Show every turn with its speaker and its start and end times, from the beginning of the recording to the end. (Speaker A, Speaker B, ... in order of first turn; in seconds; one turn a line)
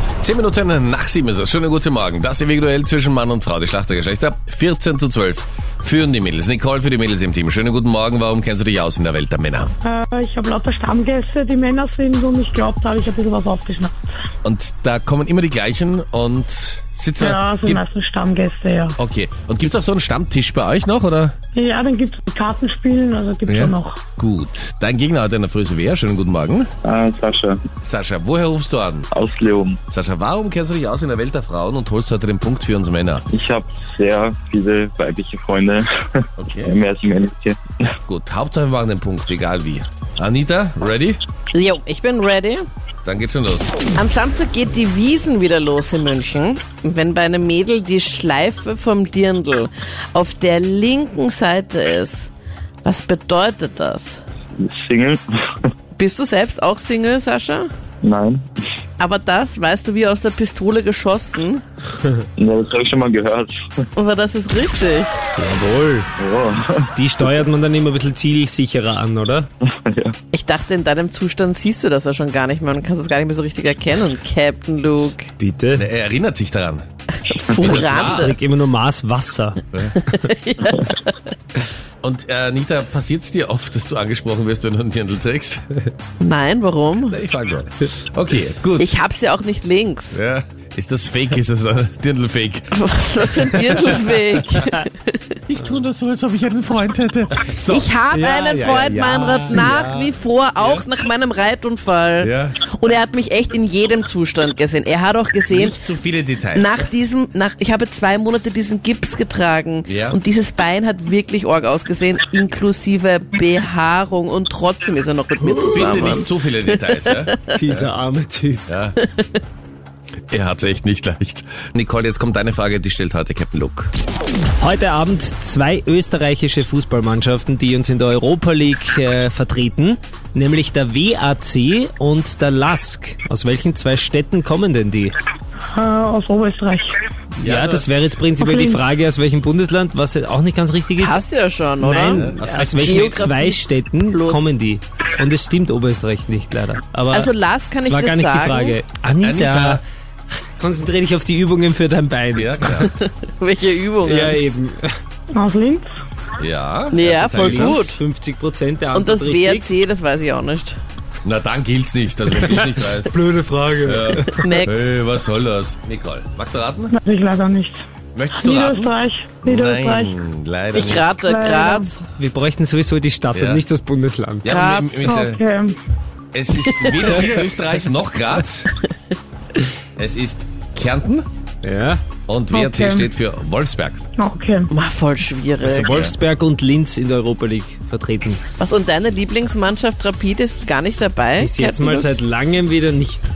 Speaker A: 0.2-9.7
Speaker B: 9.8-14.0
Speaker A: 14.4-17.9
Speaker B: 17.2-19.0
Speaker A: 19.0-21.4
Speaker B: 21.6-24.0
Speaker A: 23.5-26.7
Speaker C: 26.8-27.6
Speaker A: 27.8-29.1
Speaker C: 29.1-29.8
Speaker A: 29.9-33.2
Speaker C: 33.3-37.6
Speaker A: 36.4-36.8
Speaker A: 38.1-41.2
Speaker D: 41.5-42.6
Speaker A: 43.0-43.8
Speaker D: 44.0-52.3
Speaker D: 52.8-54.2
Speaker C: 54.6-55.2
Speaker D: 56.0-57.7
Speaker C: 58.0-58.5
Speaker D: 59.0-61.6
Speaker C: 62.4-63.7
Speaker D: 64.0-65.2
Speaker E: 65.4-66.1
Speaker C: 66.2-66.9
Speaker E: 67.0-69.5
Speaker C: 69.7-70.2
Speaker D: 70.3-75.3
Speaker E: 75.4-75.9
Speaker A: 75.8-76.8
Speaker D: 77.2-78.4
Speaker A: 77.5-78.3
Speaker E: 78.0-79.6
Speaker A: 79.7-80.0
Speaker D: 80.1-81.2
Speaker A: 82.0-85.6
Speaker D: 86.2-87.2
Speaker A: 87.1-88.9
Speaker D: 88.8-90.2
Speaker A: 90.1-94.6
Speaker D: 92.8-95.2
Speaker A: 95.5-97.9
Speaker D: 97.7-105.8
Speaker E: 98.1-99.9
Speaker A: 99.7-100.0
Speaker A: 100.6-100.8
Speaker A: 102.2-102.6
Speaker A: 105.5-106.9
Speaker D: 106.5-117.3
Speaker A: 109.8-110.2
Speaker E: 115.5-115.9
Speaker A: 115.7-117.9
Speaker E: 117.5-118.7
Speaker A: 118.7-119.0
Speaker A: 120.3-123.9
Speaker E: 124.6-135.2
Speaker B: 135.7-137.0
Speaker E: 137.4-141.2
Speaker A: 137.4-137.9
Speaker B: 138.4-138.8
Speaker D: 141.0-144.6
Speaker E: 141.8-149.8
Speaker A: 142.1-143.1
Speaker D: 147.1-148.8
Speaker A: 149.2-149.8
Speaker E: 150.5-152.8
Speaker A: 152.3-152.9
Speaker D: 152.7-154.4
Speaker E: 154.0-154.9
Speaker B: 155.3-155.9
Speaker A: 156.4-157.9
Speaker D: 156.9-158.0
Speaker E: 157.4-159.7
Speaker D: 158.9-160.8
Speaker A: 161.2-163.2
Speaker E: 162.4-164.4
Speaker A: 163.8-166.9
Speaker D: 164.4-164.9
Speaker B: 166.9-167.8
Speaker A: 168.1-171.3
Speaker B: 168.3-170.2
Speaker D: 170.7-172.0
Speaker B: 171.2-171.9
Speaker E: 172.2-174.5
Speaker A: 173.3-173.6
Speaker A: 174.4-175.4
Speaker D: 174.4-175.2
Speaker B: 175.0-175.8
Speaker A: 176.3-178.7
Speaker D: 176.7-177.4
Speaker A: 180.0-181.3
Speaker E: 181.6-182.0
Speaker A: 182.3-184.0
Speaker B: 182.5-183.1
Speaker B: 184.2-184.7
Speaker D: 184.7-186.0
Speaker E: 185.6-188.4
Speaker A: 185.9-186.1
Speaker D: 188.6-192.1
Speaker E: 191.4-193.2